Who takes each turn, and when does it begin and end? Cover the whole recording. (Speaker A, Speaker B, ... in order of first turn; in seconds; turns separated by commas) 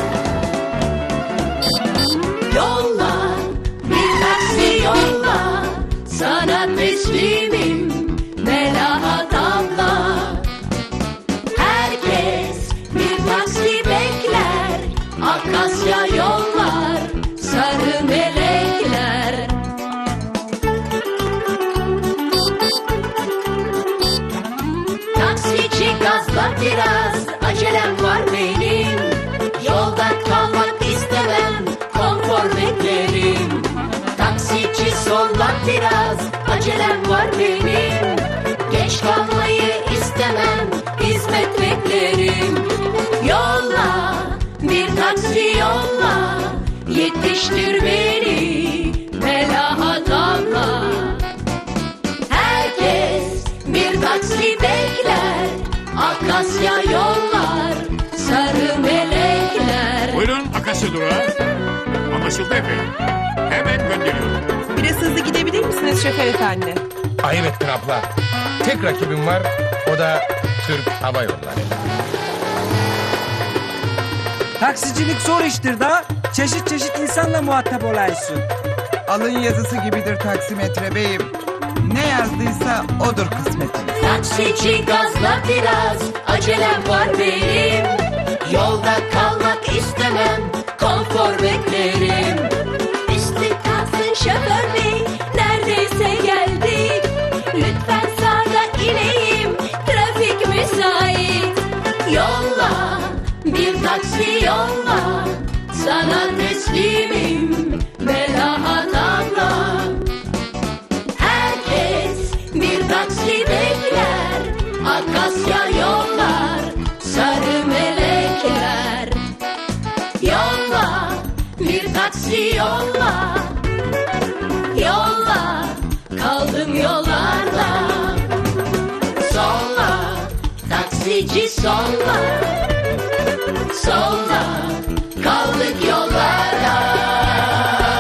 Speaker A: 2.5-10.5, Speaker A: 11.5-19.7, Speaker A: 25.1-51.3, Speaker A: 52.3-60.2, Speaker B: 60.1-61.3, Speaker B: 62.1-62.9, Speaker B: 63.5-64.4, Speaker C: 64.8-66.8, Speaker D: 67.2-68.1, Speaker D: 68.6-71.8, Speaker E: 74.6-78.5, Speaker F: 79.1-83.9, Speaker A: 84.0-110.1, Speaker A: 111.1-119.3, Speaker A: 120.2-123.7, Speaker A: 124.7-128.4, Speaker A: 129.2-132.7, Speaker A: 133.7-137.6